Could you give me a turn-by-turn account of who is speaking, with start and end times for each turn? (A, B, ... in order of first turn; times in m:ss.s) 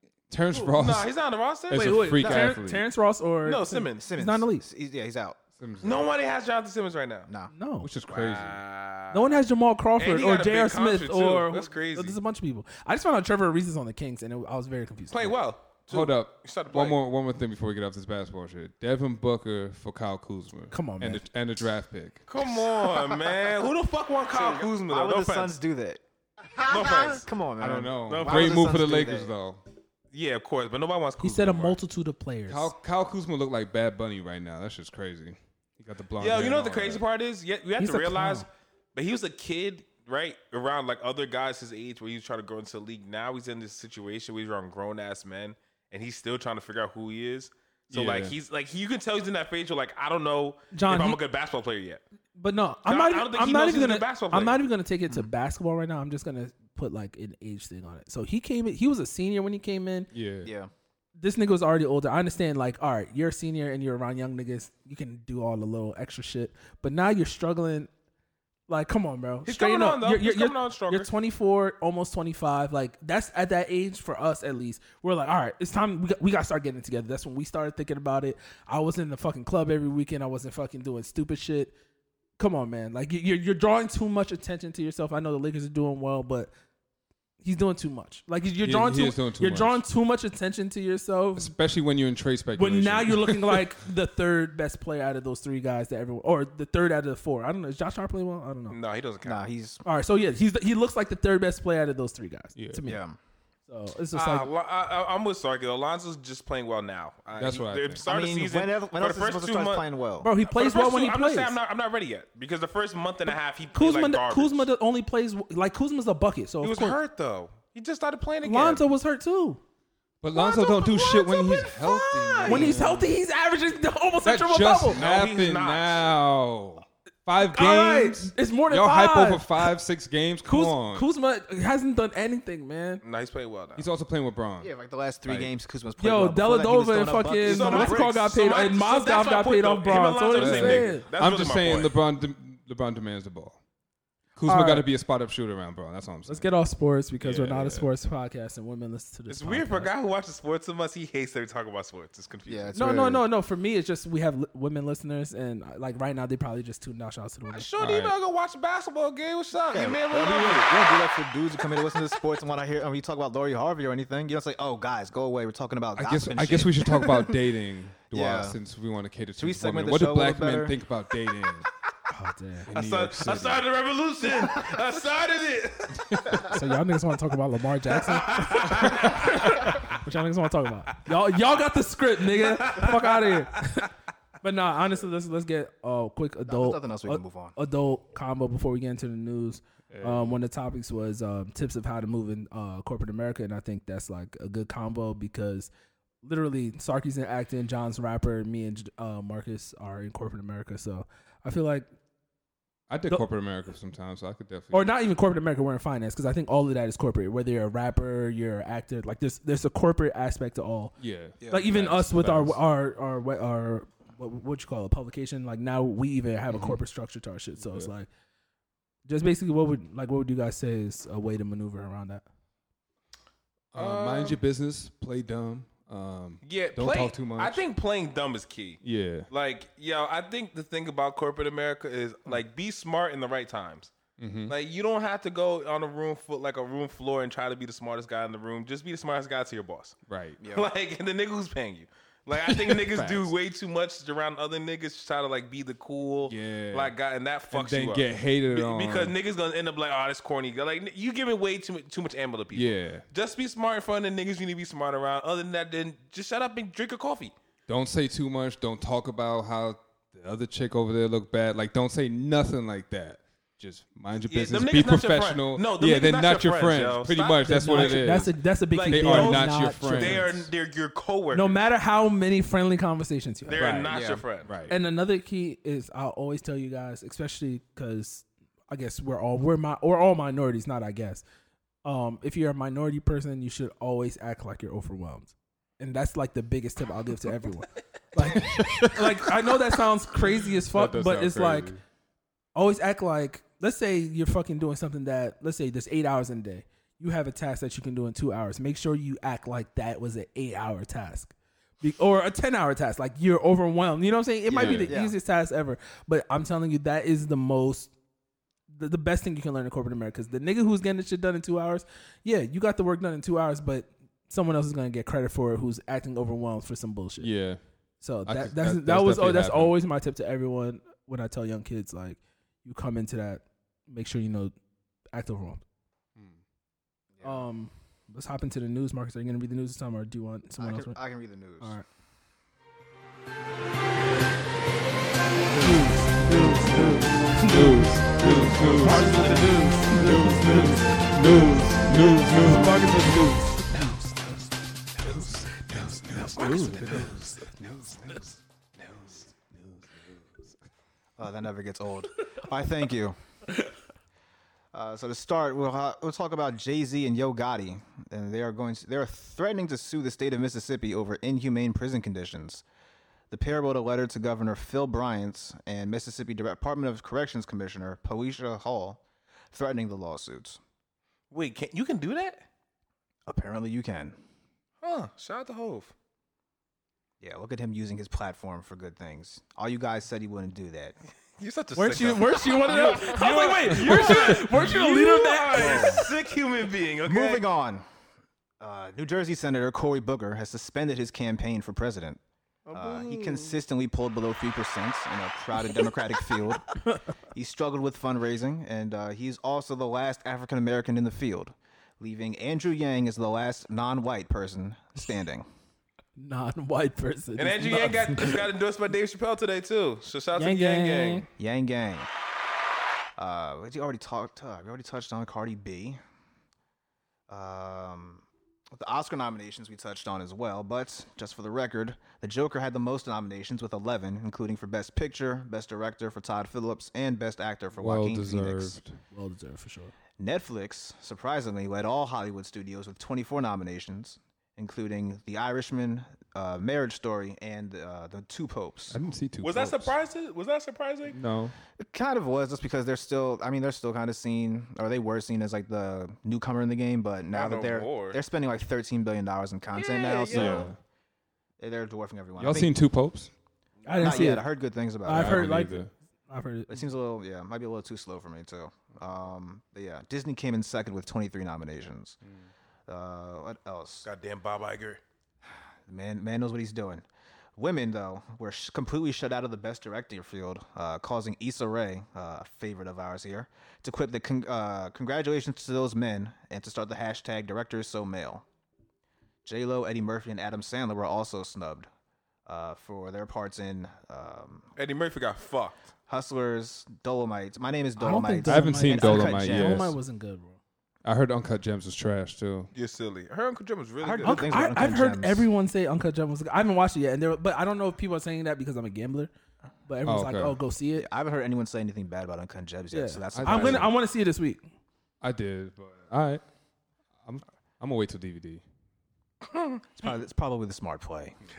0:00.3-0:01.1 A
0:00.7-0:02.5 B
0:01.7-0:02.8 A
0:01.7-0:04.6 C
0:03.4-0:04.0 B
0:03.9-0:05.4 D
0:05.6-0:06.1 A
0:05.8-0:07.3 B
0:07.3-0:07.5 D
0:07.5-0:07.9 C
0:07.8-0:08.6 A
0:08.1-0:09.4 B
0:09.1-0:15.4 C
0:10.0-0:12.2 B
0:15.1-0:17.0 B
0:15.9-0:22.2 A
0:20.7-0:21.2 C
0:22.3-0:25.5 B
0:24.3-0:26.0 D
0:26.6-0:29.3 D
0:26.6-0:27.3 B
0:27.6-0:29.6 A
0:28.1-0:28.7 B
0:30.1-0:31.8 B
0:31.2-0:32.7 C
0:32.5-0:37.0 A
0:36.2-0:52.0 B
0:37.8-0:38.5 C
0:47.9-0:48.3 A
0:50.7-0:51.2 C
0:52.4-1:00.1 C
0:52.8-0:54.6 B
1:00.1-1:00.5 A
1:00.4-1:00.7 D
1:01.2-1:07.9 C
1:08.7-1:21.7 C
1:09.4-1:11.1 B
1:22.4-1:26.5 C
1:27.4-1:31.5 C
1:28.6-1:29.8 A
1:31.4-1:33.7 A
1:32.6-1:38.8 C
1:38.7-1:39.4 B
1:39.2-1:39.8 D
1:39.8-1:43.0 C
1:42.6-1:42.8 A
1:42.8-1:43.2 D
1:43.7-1:44.5 C
1:44.1-1:49.8 B
1:47.4-1:48.0 A
1:48.0-1:50.3 D
1:50.2-1:51.5 C
1:50.4-1:54.7 B
1:53.7-1:57.0 C
1:56.6-1:58.8 B
1:58.4-1:59.6 C
2:00.2-2:03.1 A
2:00.4-2:05.0 C
2:02.4-2:02.7 B
2:04.2-2:11.0 A
2:04.9-2:06.1 B
2:07.4-2:09.7 C
2:10.4-2:13.0 C
2:13.0-2:13.8 B
2:13.8-2:14.7 A
2:14.6-2:18.2 D
2:16.0-2:21.0 C
2:17.4-2:21.9 B
2:20.4-2:23.6 A
2:24.4-2:26.5 A
2:24.4-2:24.8 C
2:26.3-2:29.9 C
2:27.2-2:27.9 A
2:29.3-2:32.7 B
2:32.4-2:33.2 D
2:32.7-2:37.7 C
2:37.5-2:41.0 B
2:37.8-2:38.1 A
2:39.7-2:47.4 D
2:46.0-2:51.7 A
2:48.1-2:48.6 D
2:49.4-2:50.8 D
2:52.1-2:52.7 C
2:52.7-2:53.6 A
2:52.7-2:56.5 B
2:56.4-3:15.7 C
2:58.1-2:59.8 B
3:02.4-3:03.4 B
3:06.5-3:07.5 D
3:09.9-3:10.4 A
3:16.2-3:21.9 C
3:22.9-3:24.9 A
3:24.7-3:30.9 C
3:31.0-3:32.6 A
3:31.4-3:31.9 D
3:31.5-3:38.1 C
3:36.5-3:36.8 A
3:37.6-3:37.9 A
3:39.0-3:42.2 C
3:43.7-3:47.6 A
3:43.8-3:44.4 B
3:46.4-3:53.9 B
3:48.8-3:49.3 A
3:54.2-3:54.5 A
3:54.5-4:17.3 B
4:00.1-4:00.4 A
4:00.4-4:00.7 D
4:02.3-4:03.3 A
4:06.2-4:06.9 A
4:07.5-4:09.1 A
4:12.5-4:13.0 A
4:17.7-4:30.5 A
4:24.3-4:28.1 B
4:27.4-4:30.3 C
4:28.7-4:31.6 B
4:31.3-4:33.9 C
4:33.4-4:34.5 B
4:33.6-4:33.9 A
4:33.9-4:34.2 D
4:34.4-4:34.8 A
4:34.7-4:41.2 C
4:41.8-4:51.7 C
4:48.2-4:49.2 A
4:50.4-4:51.8 A
4:52.6-5:07.9 C
5:04.5-5:05.1 D
5:04.5-5:04.9 A
5:08.7-5:17.3 C
5:17.2-5:17.6 A
5:18.0-5:24.5 C
5:18.2-5:19.7 A
5:25.1-5:25.6 C
5:27.1-5:27.4 D
5:27.2-5:31.0 C
5:30.6-5:31.8 D
5:35.5-5:44.2 A
5:35.6-5:44.3 C
5:38.8-5:39.4 B
5:45.0-5:50.5 A
5:46.1-5:47.3 C
5:51.2-5:53.2 D
5:54.7-6:02.6 D
6:03.3-6:10.6 D
6:11.3-6:12.4 B
6:13.3-6:14.2 D
6:14.8-6:15.9 B
6:17.2-6:20.9 D
6:21.4-6:27.4 B
6:21.7-6:26.0 C
6:25.5-6:26.1 D
6:27.0-6:27.8 D
6:28.6-6:32.2 D
6:32.7-6:33.6 B
6:32.7-6:36.7 D
6:37.3-6:45.4 D
6:46.2-6:48.4 C
6:47.4-6:51.3 B
6:50.4-6:51.2 C
6:51.4-6:52.1 D
6:53.2-6:56.0 D
6:57.3-7:08.8 D
7:07.8-7:09.0 A
7:09.1-7:09.9 C
7:10.2-7:19.0 D
7:18.9-7:19.9 A
7:19.4-7:21.2 B
7:21.1-7:21.6 A
7:21.7-7:30.7 D
7:27.3-7:28.2 B
7:29.7-7:30.7 B
7:30.3-7:30.8 A
7:31.6-7:32.7 D
7:32.4-7:33.3 A
7:33.8-7:34.3 B
7:33.8-7:34.5 C
7:34.0-7:35.6 D
7:35.0-7:36.8 C
7:35.1-7:35.9 A
7:36.7-7:42.2 D
7:42.9-7:44.1 D
7:44.0-7:45.0 B
7:45.9-7:47.0 D
7:47.6-7:58.4 D
7:59.4-8:01.9 D
8:02.4-8:04.7 D
8:04.8-8:05.9 B
8:06.1-8:09.9 D
8:08.0-8:10.6 C
8:08.5-8:09.9 A
8:11.0-8:12.7 A
8:12.7-8:14.6 B
8:14.0-8:15.5 D
8:14.2-8:19.3 C
8:19.8-8:21.1 C
8:20.0-8:20.6 A
8:20.9-8:23.9 D
8:22.9-8:24.6 C
8:23.3-8:23.9 A
8:25.2-8:26.4 A
8:27.2-8:28.6 A
8:29.4-8:29.8 B
8:30.0-8:31.4 D